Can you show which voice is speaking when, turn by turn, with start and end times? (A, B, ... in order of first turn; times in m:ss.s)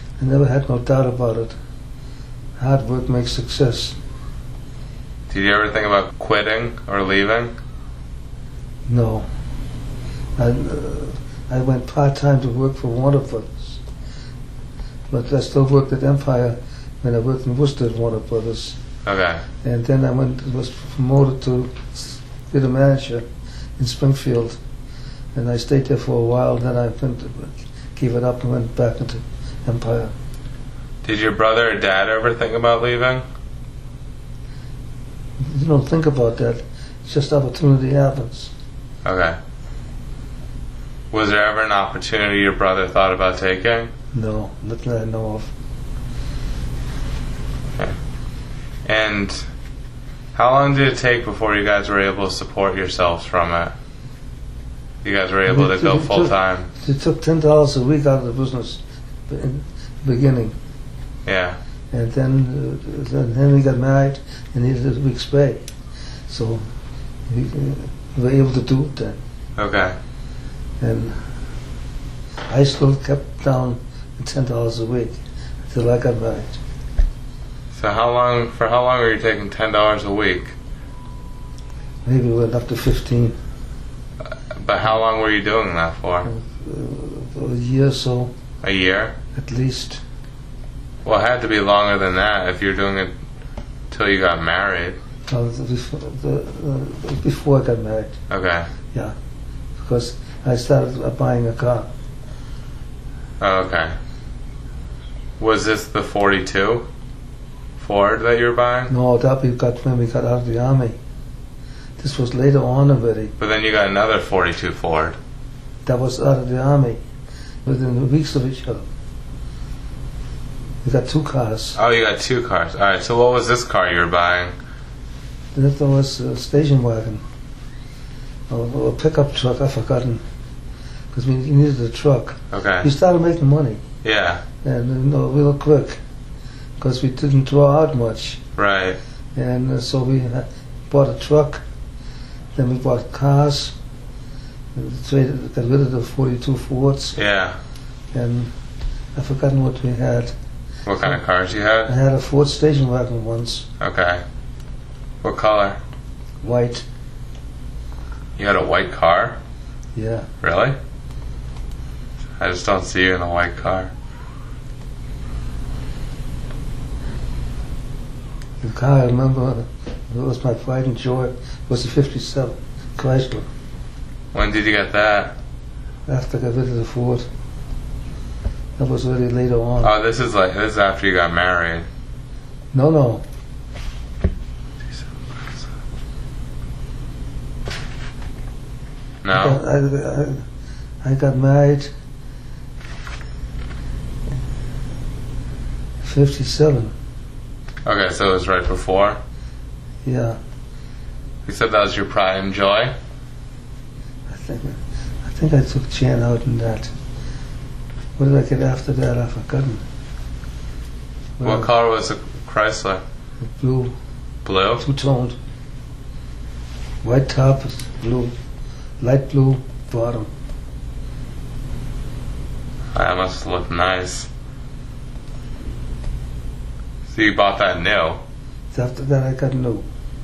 0:00.2-0:01.6 A
0:02.6-0:04.0 A
0:05.3-0:07.6 B
0:08.9-0:09.3 A
0:10.4-0:13.8 A
0:15.1-0:18.8 A
0:19.0-0:19.4 B
0:19.6-0:23.3 A
0:23.8-0:24.6 A
0:25.3-0:30.1 A
0:31.0-0:33.2 B
0:35.4-0:38.5 A
0:39.0-0:39.4 B
0:41.1-0:43.9 B
0:44.1-0:45.5 A
0:48.8-0:49.5 B
0:50.3-0:53.7 B
0:55.0-0:56.7 B
0:55.5-1:00.6 A
1:01.2-1:01.6 B
1:01.9-1:05.6 A
1:06.3-1:06.6 A
1:07.3-1:09.2 A
1:09.6-1:10.0 B
1:10.8-1:11.2 A
1:12.5-1:15.2 A
1:15.7-1:16.6 A
1:17.7-1:20.6 B
1:22.0-1:23.3 A
1:24.2-1:26.3 B
1:26.2-1:28.3 A
1:28.6-1:29.2 B
1:29.3-1:30.0 A
1:31.0-1:33.1 B
1:33.9-1:35.0 B
1:35.3-1:38.2 A
1:38.3-1:38.7 B
1:39.8-1:41.9 A
1:43.4-1:44.0 B
1:45.4-1:46.9 B
1:47.8-1:48.9 B
1:48.9-1:51.0 A
1:52.0-1:53.3 A
1:53.4-1:55.2 B
1:55.9-1:57.0 A
1:57.6-1:58.8 A
2:00.8-2:01.8 A
2:01.8-2:04.5 B
2:05.6-2:07.2 A
2:08.5-2:10.2 A
2:11.1-2:13.8 A
2:12.5-2:12.9 B
2:14.0-2:14.4 B
2:14.6-2:16.0 A
2:16.8-2:18.4 A
2:18.6-2:19.0 B
2:19.3-2:21.6 A
2:22.6-2:23.7 A
2:24.7-2:27.2 A
2:27.2-2:27.6 B
2:28.1-2:28.5 A
2:29.1-2:30.3 A
2:30.9-2:31.9 B
2:31.9-2:33.7 A
2:33.8-2:34.2 B
2:35.2-2:35.8 B
2:36.4-2:36.8 A
2:38.4-2:39.4 B
2:39.9-2:40.3 A
2:40.4-2:40.8 B
2:42.4-2:43.9 B
2:48.6-2:53.5 A
2:54.3-2:55.4 B
2:56.1-2:57.3 A
2:58.8-2:59.9 A
2:59.8-3:01.9 B
3:02.7-3:03.2 A
3:09.2-3:09.6 B
3:09.3-3:10.4 A
3:11.0-3:11.9 A
3:16.0-3:16.9 A
3:17.8-3:19.2 B
3:20.0-3:20.4 A
3:21.4-3:22.9 B
3:24.3-3:26.9 A
3:28.2-3:29.8 A
3:31.4-3:31.7 A
3:31.4-3:33.0 B
3:33.4-3:33.9 A
3:34.4-3:34.8 B
3:34.8-3:35.4 A
3:37.0-3:38.3 A
3:39.0-3:40.3 A
3:42.9-3:44.3 B
3:47.1-3:48.2 B
3:48.7-3:49.8 A